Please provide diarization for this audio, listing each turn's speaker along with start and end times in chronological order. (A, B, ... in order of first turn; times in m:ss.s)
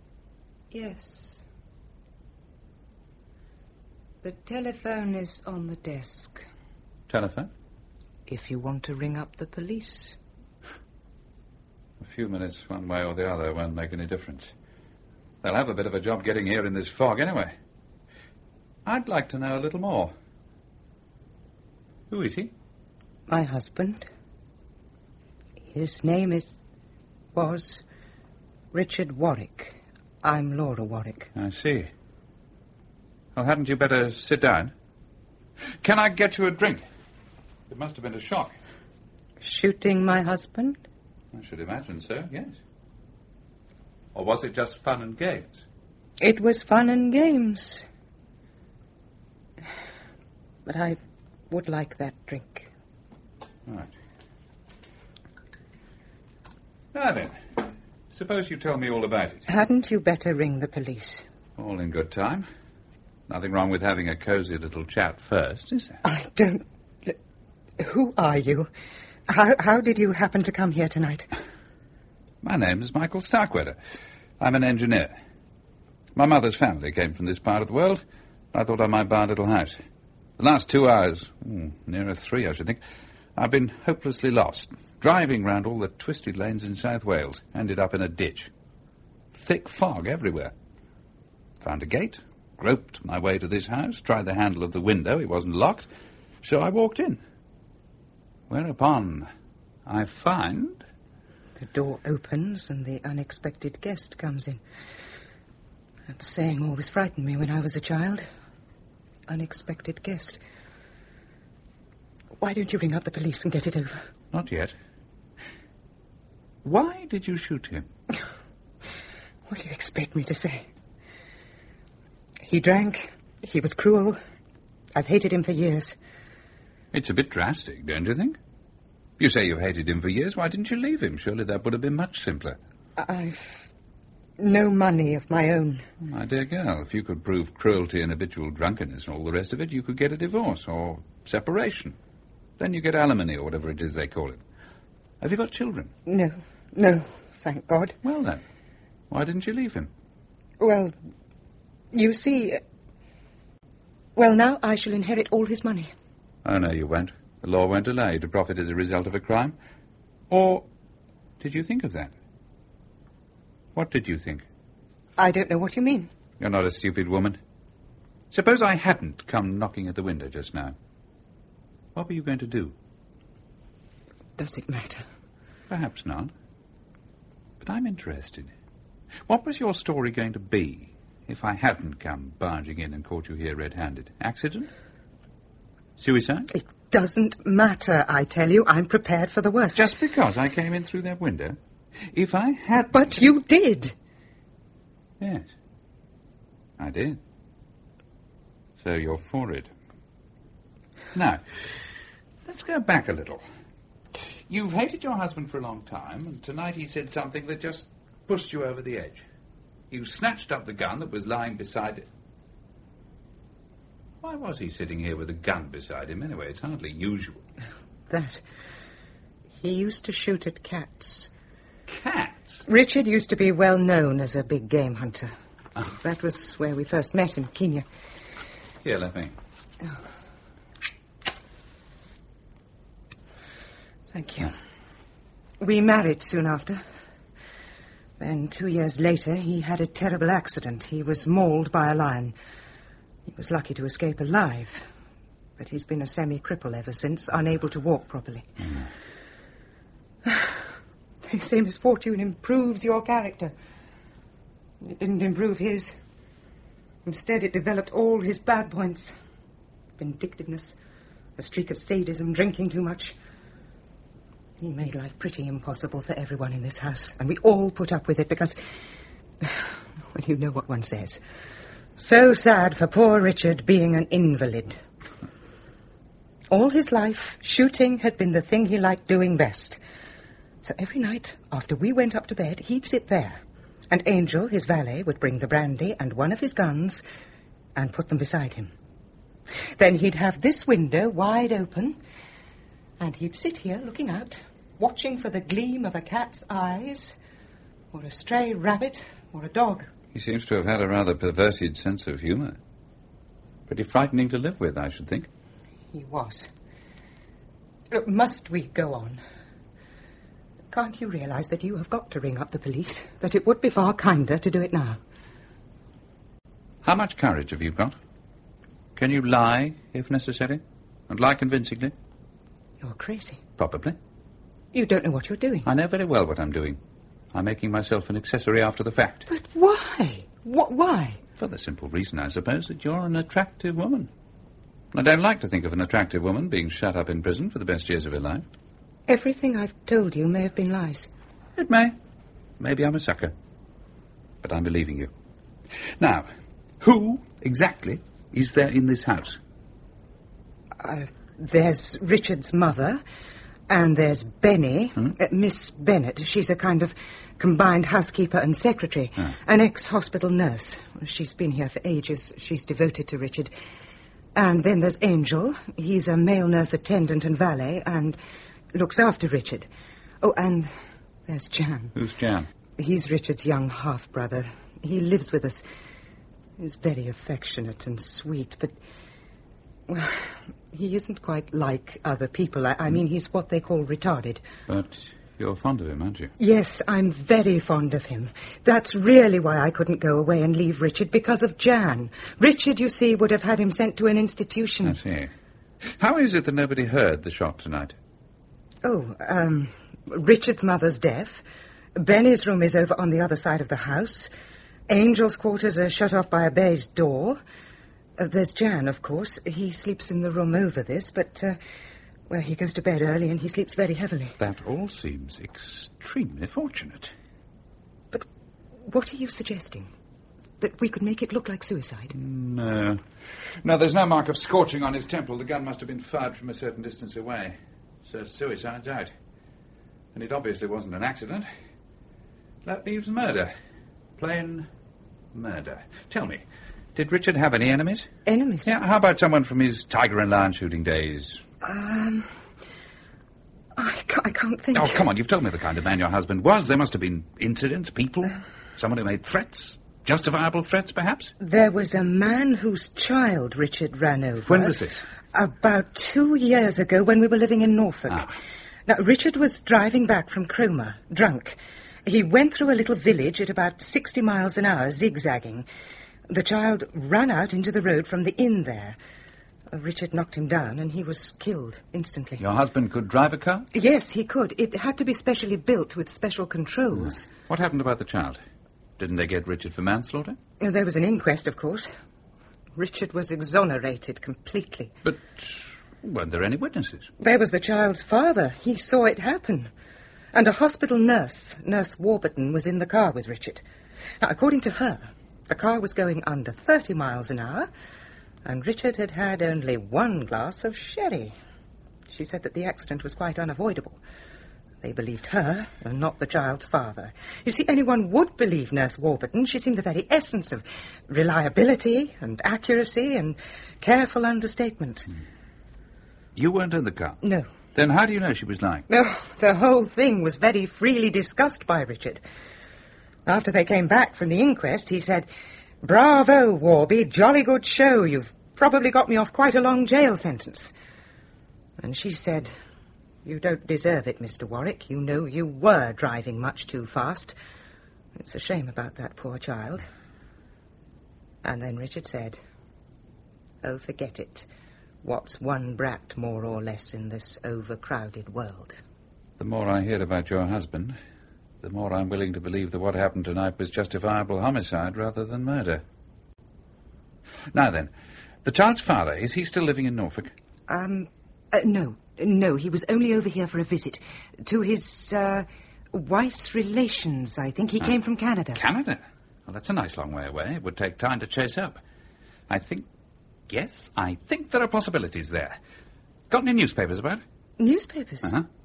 0:00.7-0:01.4 A
0:04.2-0:06.4 A
0:07.1-0:07.5 B
0:08.3-0:10.2 A
0:12.0-0:14.5 B
0:15.4-0:17.5 B
0:18.8-0:20.1 B
0:22.1-0:22.5 B
0:23.3-0:24.0 A
0:25.7-0:26.5 A
0:27.3-0:27.8 A
0:28.7-0:31.3 A
0:31.4-0:31.9 B
0:33.4-0:34.7 B
0:35.8-0:36.8 B
0:37.7-0:38.6 B
0:39.4-0:40.8 A
0:41.3-0:42.5 B
0:44.1-0:45.6 B
0:46.2-0:47.8 A
0:50.6-0:51.0 A
0:51.5-0:52.7 A
0:53.7-0:53.9 B
0:56.9-0:59.4 B
0:59.5-1:01.2 A
1:01.6-1:02.4 B
1:03.3-1:06.0 B
1:06.0-1:07.2 A
1:07.8-1:08.7 A
1:09.3-1:11.3 A
1:12.4-1:13.8 B
1:14.4-1:15.1 B
1:16.1-1:18.0 B
1:18.5-1:19.8 B
1:20.4-1:22.8 B
1:23.4-1:28.5 B
1:29.3-1:30.5 B
1:31.6-1:35.9 B
1:36.4-1:37.2 B
1:38.5-1:39.3 B
1:39.8-1:40.8 B
1:41.6-1:44.6 A
1:46.1-1:48.2 A
1:49.3-1:50.4 A
1:52.4-1:54.0 A
1:54.3-1:54.7 B
1:56.6-1:57.9 B
1:59.5-2:00.6 A
2:02.5-2:04.2 A
2:04.9-2:05.9 A
2:06.9-2:08.4 B
2:09.2-2:12.6 B
2:13.0-2:13.7 A
2:14.4-2:15.8 A
2:16.0-2:22.0 B
2:22.6-2:24.4 B
2:25.2-2:25.9 B
2:26.1-2:28.0 A
2:28.0-2:28.4 B
2:29.1-2:29.9 B
2:30.6-2:30.9 A
2:31.9-2:32.6 A
2:34.2-2:35.9 A
2:36.4-2:39.6 B
2:40.3-2:40.6 B
2:41.4-2:42.1 B
2:43.7-2:44.4 B
2:45.2-2:46.1 A
2:46.4-2:47.4 B
2:48.3-2:50.8 B
2:51.9-2:52.7 B
2:54.4-2:55.0 A
2:55.7-2:56.3 B
2:57.6-2:58.5 B
2:59.3-3:04.7 B
3:06.0-3:06.5 B
3:06.5-3:09.9 A
3:09.8-3:11.6 B
3:12.1-3:12.9 B
3:12.8-3:13.9 A
3:15.2-3:15.4 B
3:16.8-3:17.2 B
3:18.8-3:19.7 B
3:21.1-3:21.4 B
3:22.4-3:23.4 B
3:24.5-3:29.2 B
3:29.9-3:32.0 B
3:34.2-3:37.4 B
3:38.1-3:38.4 A
3:39.6-3:41.3 A
3:41.9-3:42.6 B
3:42.7-3:45.3 A
3:45.9-3:47.8 A
3:48.8-3:49.4 B
3:54.1-3:54.5 A
3:55.6-3:56.8 A
3:58.2-4:02.3 A
4:03.3-4:04.8 A
4:05.6-4:08.5 A
4:10.2-4:10.6 A
4:11.2-4:13.5 A
4:14.8-4:15.9 A
4:17.0-4:19.1 A
4:20.0-4:20.7 A
4:21.4-4:23.1 A
4:24.6-4:28.6 A
4:29.4-4:31.2 A
4:32.0-4:34.8 A
4:36.5-4:39.8 A
4:40.6-4:47.0 A
4:47.8-4:48.7 A
4:49.8-4:52.0 A
4:53.0-4:57.2 A
4:57.9-4:59.9 A
5:00.1-5:02.6 B
5:03.7-5:05.3 B
5:05.9-5:06.5 A
5:07.9-5:09.2 A
5:10.7-5:15.0 A
5:16.8-5:17.9 B
5:19.0-5:21.9 B
5:22.8-5:23.4 A
5:23.6-5:24.0 B
5:24.7-5:25.7 A
5:25.6-5:26.8 B
5:27.3-5:29.3 B
5:29.3-5:31.2 A
5:31.4-5:34.1 B
5:34.9-5:38.4 B
5:39.1-5:41.1 A
5:41.6-5:42.0 B
5:42.6-5:43.3 B
5:44.4-5:45.1 B
5:46.0-5:46.3 B
5:46.8-5:49.4 B
5:50.8-5:53.0 A
5:53.7-6:03.5 A
6:04.3-6:08.2 A
6:08.7-6:09.7 A
6:10.2-6:10.7 A
6:11.3-6:11.9 A
6:12.0-6:12.5 B
6:12.8-6:15.6 A
6:16.6-6:18.8 A
6:19.9-6:24.4 A
6:24.7-6:26.3 B
6:26.4-6:35.0 A
6:34.8-6:35.3 B
6:35.9-6:37.9 B
6:38.8-6:41.4 A
6:41.9-6:44.3 A
6:44.9-6:47.4 A
6:48.2-6:51.6 A
6:52.3-6:54.3 A
6:54.4-6:57.1 B
6:58.8-6:59.9 A
7:00.6-7:02.1 A
7:02.1-7:03.0 B
7:03.6-7:09.1 B
7:10.1-7:11.5 B
7:12.6-7:13.5 B
7:14.2-7:14.7 B
7:15.3-7:16.4 B
7:16.9-7:18.1 B
7:18.3-7:18.7 A
7:18.6-7:21.4 B
7:21.6-7:22.3 A
7:23.8-7:25.0 A
7:24.7-7:31.3 B
7:31.4-7:34.8 A
7:34.5-7:35.0 B
7:35.3-7:38.3 A
7:38.9-7:45.6 A
7:46.3-7:49.0 A
7:49.7-7:52.4 A
7:52.4-7:53.7 B
7:53.7-7:57.3 A
7:57.4-7:58.4 B
7:59.0-8:00.4 B
8:00.6-8:01.9 A
8:02.8-8:04.9 A
8:05.0-8:07.1 B
8:07.2-8:09.7 A
8:10.3-8:13.6 A
8:14.2-8:17.7 A
8:18.4-8:21.3 A
8:22.1-8:24.0 A
8:24.8-8:35.1 A
8:36.4-8:37.2 B
8:37.2-8:37.5 A
8:37.7-8:38.8 B
8:38.9-8:42.2 A
8:43.2-8:45.3 A
8:45.8-8:50.7 A
8:51.8-8:52.5 A
8:53.2-8:57.3 A
8:58.2-8:59.8 A
9:01.4-9:02.4 A
9:03.6-9:04.5 A
9:05.0-9:08.8 A
9:09.4-9:11.0 B
9:11.6-9:15.8 B
9:17.5-9:17.9 B
9:18.4-9:20.3 B
9:20.7-9:28.6 A
9:28.5-9:31.8 B
9:32.5-9:32.9 B
9:33.5-9:35.6 B
9:36.3-9:37.2 B
9:37.6-9:38.3 A